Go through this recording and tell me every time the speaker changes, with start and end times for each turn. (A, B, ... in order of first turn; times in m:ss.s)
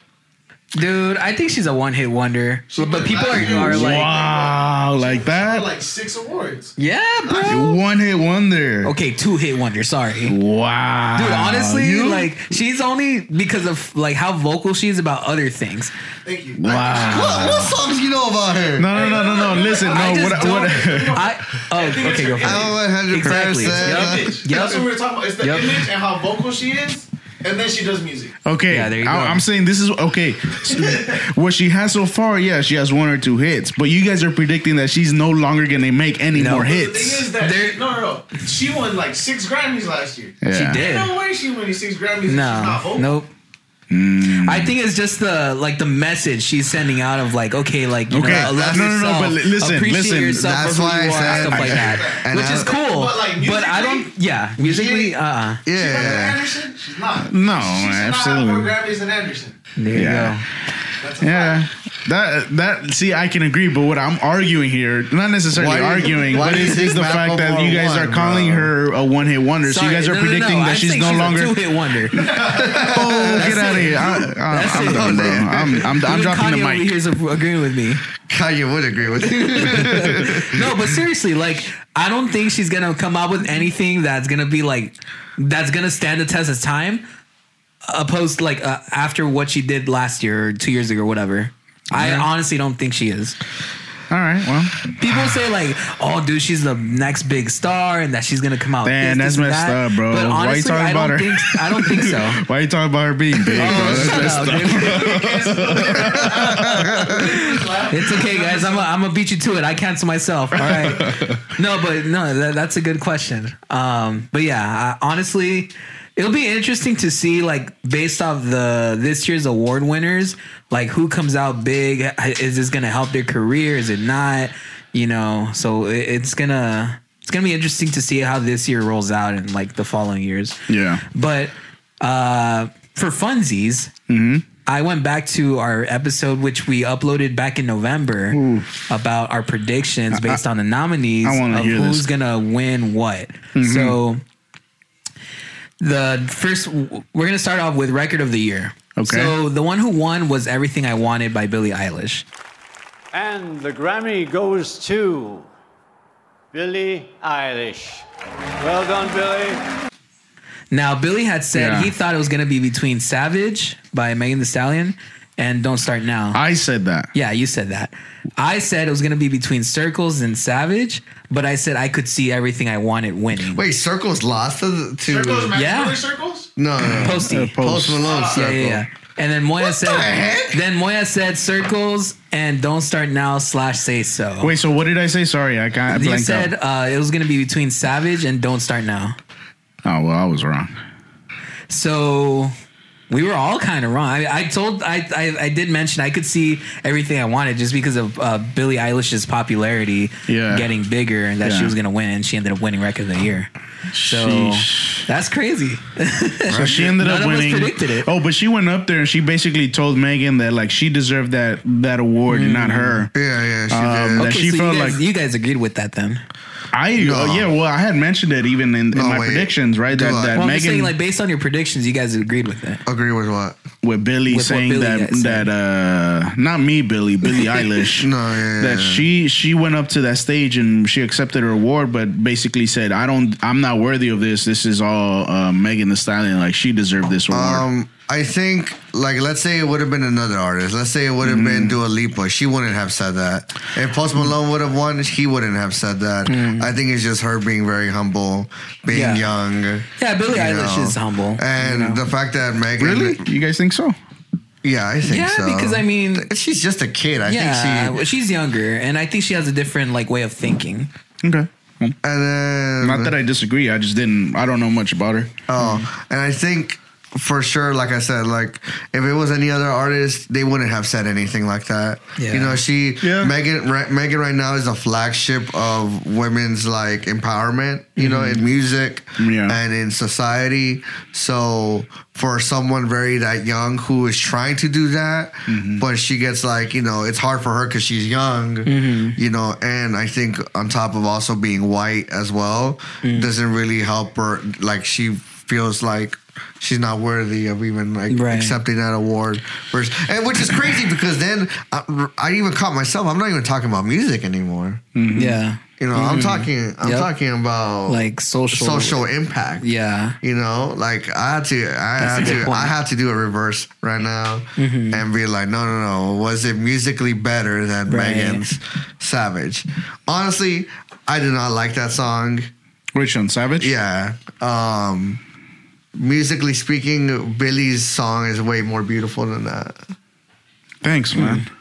0:00.7-0:04.1 A
0:02.7-0:06.7 B
0:03.3-0:05.7 C
0:06.8-0:07.8 A
0:07.2-0:07.6 B
0:07.4-0:08.9 C
0:08.8-0:10.4 A
0:10.3-0:12.3 C
0:11.1-0:15.9 A
0:16.2-0:17.7 B
0:16.6-0:17.6 C
0:17.1-0:18.9 D
0:17.3-0:17.6 A
0:18.8-0:21.2 C
0:18.9-0:22.7 B
0:19.9-0:24.9 A
0:22.4-0:24.6 D
0:23.3-0:28.3 B
0:25.4-0:25.8 A
0:28.4-0:37.3 C
0:28.7-0:29.4 A
0:30.7-0:31.1 B
0:36.3-0:36.7 A
0:36.5-0:43.1 B
0:37.3-0:37.8 A
0:40.4-0:40.8 C
0:40.5-0:41.1 A
0:42.2-0:43.3 A
0:43.9-0:44.7 C
0:44.4-0:55.6 A
0:48.1-0:50.5 C
0:48.2-0:48.9 D
0:50.4-0:52.7 D
0:51.2-0:55.1 B
0:55.6-0:56.5 D
0:55.7-0:59.6 B
0:57.2-0:58.7 C
0:59.8-1:00.4 A
0:59.9-1:00.4 C
1:01.0-1:01.6 B
1:01.2-1:11.6 C
1:05.5-1:08.7 D
1:09.6-1:12.3 A
1:12.4-1:12.7 B
1:12.6-1:13.6 D
1:12.8-1:16.9 C
1:13.3-1:18.0 A
1:14.6-1:15.9 D
1:18.3-1:20.8 D
1:19.5-1:27.0 A
1:27.9-1:33.4 A
1:31.9-1:32.3 C
1:34.1-1:35.0 C
1:35.0-1:42.4 A
1:38.8-1:46.9 C
1:43.6-1:45.1 A
1:43.6-1:48.9 B
1:46.3-1:47.2 D
1:47.2-2:13.9 A
1:50.6-1:51.4 C
2:10.7-2:11.0 C
2:14.1-2:14.4 C
2:14.6-2:24.2 A
2:18.3-2:18.9 C
2:20.1-2:20.4 C
2:21.2-2:22.1 C
2:23.5-2:24.0 C
2:25.8-2:32.2 A
2:29.0-2:29.3 C
2:33.1-2:35.5 E
2:36.5-2:38.0 E
2:38.6-2:39.6 E
2:40.7-2:46.4 A
2:41.5-2:41.9 C
2:46.3-2:47.1 C
2:47.1-2:53.6 A
2:53.5-2:55.6 D
2:55.1-2:56.5 B
2:55.5-2:56.1 A
2:56.6-2:58.8 D
2:56.9-2:57.6 A
2:56.9-2:58.0 C
2:58.0-2:58.4 B
2:58.3-3:04.5 A
2:59.6-3:00.6 D
3:04.4-3:06.5 C
3:05.9-3:09.2 A
3:09.8-3:10.7 C
3:11.7-3:12.5 A
3:13.1-3:23.5 A
3:20.3-3:20.7 C
3:21.4-3:21.7 C
3:23.9-3:25.0 C
3:24.0-3:28.1 A
3:26.5-3:26.9 D
3:26.5-3:33.1 C
3:32.3-3:33.0 A
3:33.1-3:34.3 D
3:33.7-3:35.0 C
3:34.2-3:36.2 A
3:36.7-3:40.9 C
3:37.0-3:37.5 D
3:38.9-3:40.4 D
3:40.3-3:42.8 A
3:42.8-3:43.6 D
3:43.8-3:57.6 C
3:44.3-3:45.5 A
3:47.9-3:49.0 D
3:57.3-4:13.2 D
4:01.2-4:01.8 C
4:06.3-4:06.7 A
4:08.9-4:09.2 A
4:10.0-4:11.4 A
4:11.6-4:12.0 C
4:12.8-4:14.0 C
4:14.6-4:18.0 D
4:15.1-4:16.3 A
4:17.3-4:20.9 A
4:21.2-4:22.0 C
4:22.0-4:23.1 D
4:22.8-4:25.3 C
4:25.5-5:04.8 D
4:25.6-4:25.8 A
4:32.2-4:32.6 A
4:33.0-4:33.3 C
4:38.0-4:38.4 A
4:39.2-4:39.6 C
4:45.5-4:45.8 C
4:48.6-4:49.2 A
4:53.0-4:53.3 A
4:58.1-4:58.6 A
5:05.0-5:05.4 C
5:05.1-5:07.1 A
5:05.8-5:09.6 D
5:07.9-5:09.0 A
5:09.6-5:10.2 A
5:10.2-5:22.5 D
5:12.0-5:12.7 A
5:14.6-5:15.0 A
5:17.9-5:18.5 A
5:22.9-5:23.7 C
5:23.6-5:25.2 D
5:25.9-5:29.8 D
5:30.8-5:31.5 C
5:31.2-5:31.4 A